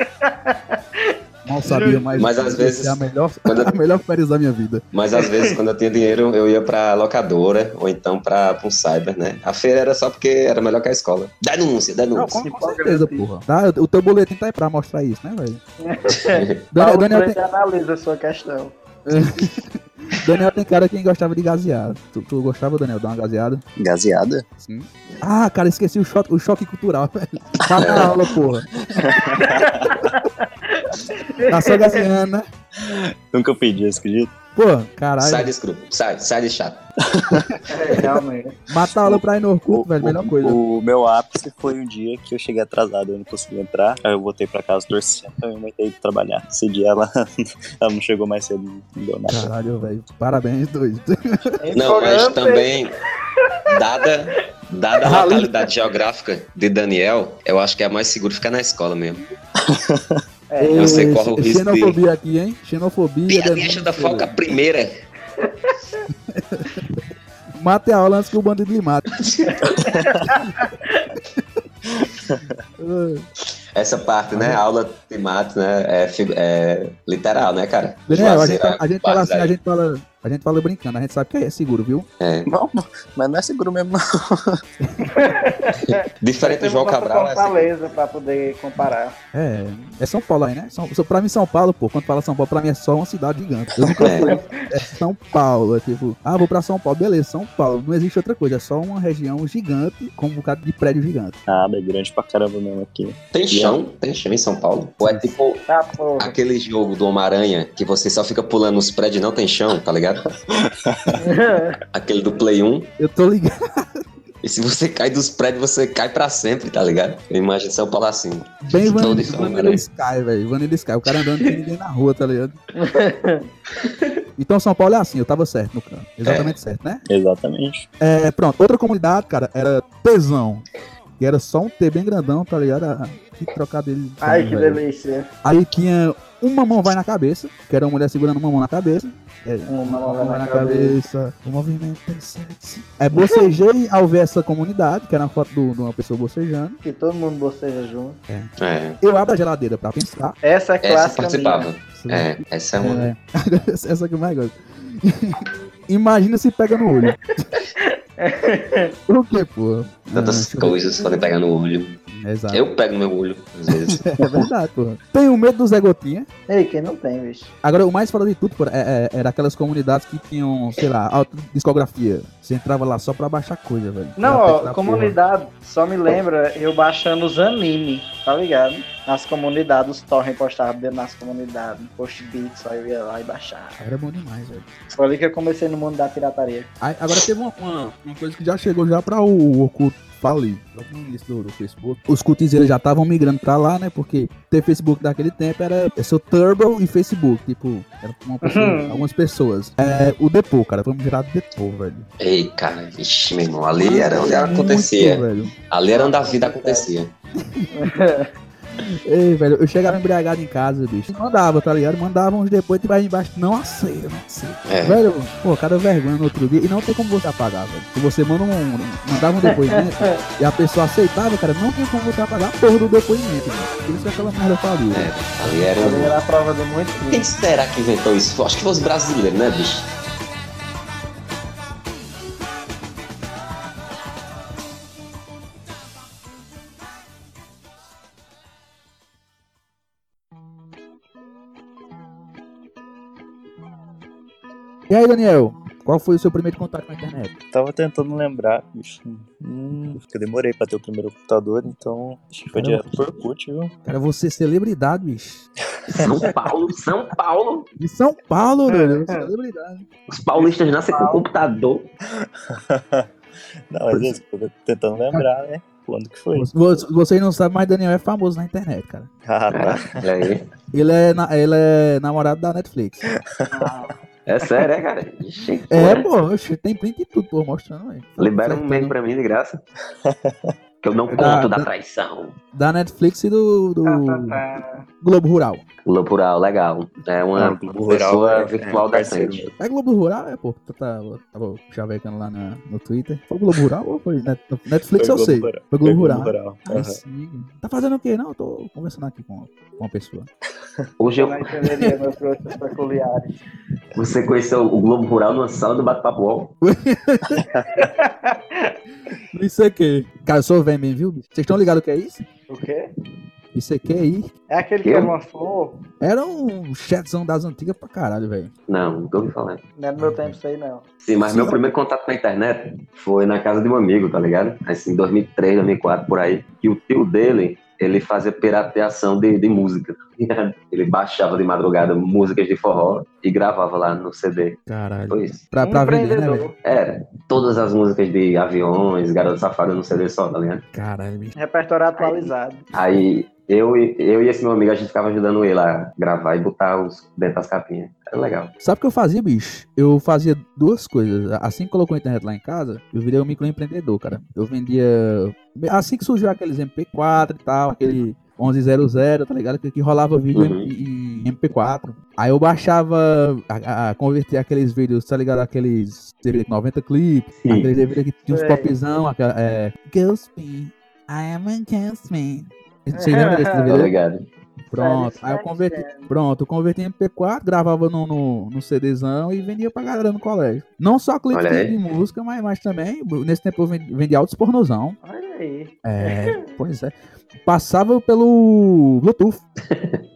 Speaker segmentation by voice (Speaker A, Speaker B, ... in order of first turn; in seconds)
Speaker A: 0.2-2.1, 5.2-5.5, 12.4-13.3, 15.8-18.7, 29.4-32.0, 37.7-38.5, 51.6-52.7, 60.5-61.1, 65.4-66.0, 69.5-71.1, 85.0-89.1, 94.2-94.6, 105.7-106.3, 111.2-111.8, 122.7-123.5, 134.2-135.3, 139.7-141.0, 143.2-143.4, 146.8-148.2, 150.4-151.7, 157.8-158.9, 166.5-167.5, 174.2-183.8, 185.0-186.7, 198.4-199.0, 205.9-206.9, 207.7-208.3, 219.5-220.2, 225.8-227.2, 258.7-259.3, 260.4-261.2, 273.5-274.5, 283.8-284.9, 301.1-303.3, 307.7-308.7, 312.5-312.8, 314.5-315.8, 319.8-320.8, 335.6-336.5, 341.4-342.6, 368.3-368.7, 372.9-373.8, 374.7-376.1, 385.0-386.3
Speaker B: 1.4-4.8, 12.1-15.6, 16.7-17.4, 19.1-23.6, 24.6-28.7, 31.5-32.4, 34.5-35.5, 38.7-40.6, 49.3-51.6, 55.0-55.5, 60.6-64.3, 66.3-66.8, 67.5-69.1, 72.8-73.2, 74.3-74.6, 78.1-82.0, 89.3-101.4, 105.0-105.3, 113.0-114.0, 118.6-122.6, 124.4-127.0, 128.0-130.7, 131.2-134.8, 135.4-146.8, 149.0-150.4, 151.9-157.5, 159.1-160.8, 162.1-162.6, 163.7-166.3, 167.6-175.1, 183.8-184.7, 186.8-202.1, 203.8-205.5, 207.4-207.7, 208.8-225.6, 244.9-247.3, 252.5-253.0, 253.8-256.3, 257.8-259.9, 263.9-264.2, 266.3-269.1, 270.7-273.1, 275.7-278.9, 281.1-281.7, 282.5-284.4, 285.0-285.6, 289.6-300.3, 306.6-307.4, 309.3-312.2, 313.5-314.3, 316.0-318.5, 320.0-320.4, 321.3-321.6, 334.6-336.5, 340.7-341.3, 348.6-373.9, 374.7-385.0, 385.8-389.4
Speaker C: 2.2-3.8, 4.9-12.4, 16.3-16.6, 27.8-28.1, 35.2-36.8, 51.7-52.9, 53.7-59.2, 60.8-62.0, 63.3-65.0, 69.2-69.9, 73.7-79.5, 82.2-82.5, 85.9-87.8, 93.9-94.3, 103.3-105.6, 106.2-110.2, 111.9-112.9, 114.4-119.8, 121.2-121.5, 123.8-124.2, 126.2-126.6, 148.6-149.0, 150.8-153.1, 160.1-162.0, 162.5-164.1, 202.2-207.1, 214.7-215.0, 224.9-226.2, 227.1-229.9, 256.0-257.7, 260.1-261.9, 269.5-270.5, 274.2-276.1, 278.2-279.6, 280.8-282.4, 285.8-289.4, 301.0-301.4, 303.9-306.5, 314.8-315.1, 318.7-319.6, 321.0-334.6, 335.1-335.4, 336.6-340.6, 342.0-348.5, 360.3-360.7, 367.4-367.7, 373.7-374.2, 381.3-381.8, 389.6-390.0
Speaker D: 23.8-24.4, 28.9-30.0, 32.8-34.3, 37.1-38.0, 39.7-47.1, 47.8-49.5, 59.6-60.2, 71.9-72.5, 82.5-84.6, 101.5-103.8, 110.5-111.2, 127.1-127.9, 247.5-253.7, 255.9-256.2, 262.2-263.1, 263.7-266.5, 269.3-270.0, 280.0-280.5, 287.3-289.6, 294.9-297.0, 307.4-307.6